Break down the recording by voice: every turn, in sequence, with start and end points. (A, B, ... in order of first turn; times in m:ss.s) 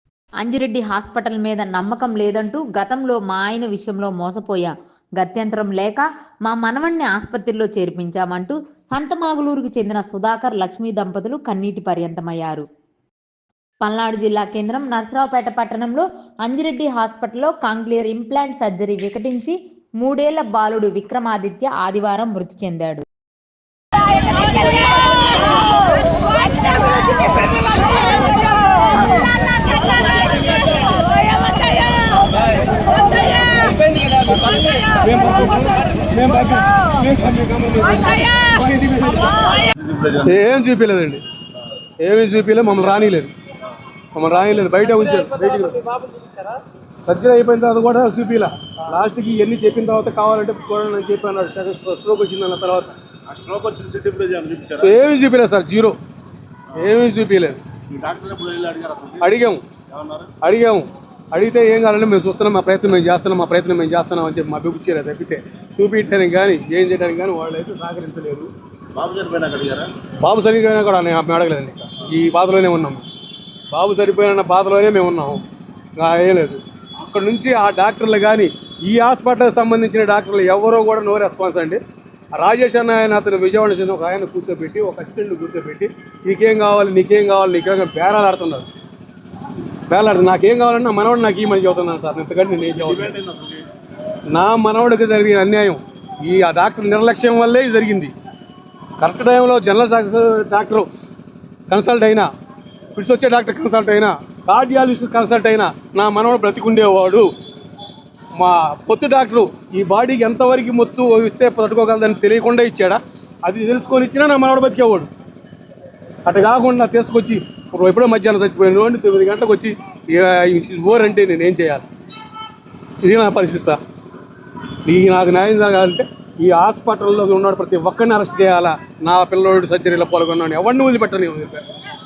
0:00.4-0:12.6 A
0:13.8-0:23.0 A
0:33.2-0:39.5 B
0:39.8-0:40.3 C
0:40.2-0:41.2 B
0:42.0-0:43.3 B
0:44.1-0:46.0 B
0:47.1-0:53.0 B
0:53.3-0:54.9 C
0:54.8-0:56.0 B
0:56.8-0:57.6 B
0:57.9-0:59.3 C
0:59.2-0:59.7 B
0:59.9-1:00.3 C
1:00.4-1:08.5 B
1:08.9-1:09.9 C
1:10.2-1:13.0 B
1:13.7-1:15.4 B
1:16.0-1:21.8 B
1:22.4-1:28.7 B
1:29.9-1:33.2 B
1:32.8-1:33.7 C
1:34.3-1:38.1 B
1:39.0-1:40.9 B
1:41.7-1:42.3 B
1:43.0-1:47.3 B
1:48.4-1:55.1 B
1:56.2-2:01.9 B
2:03.0-2:03.8 B
2:04.8-2:11.6 B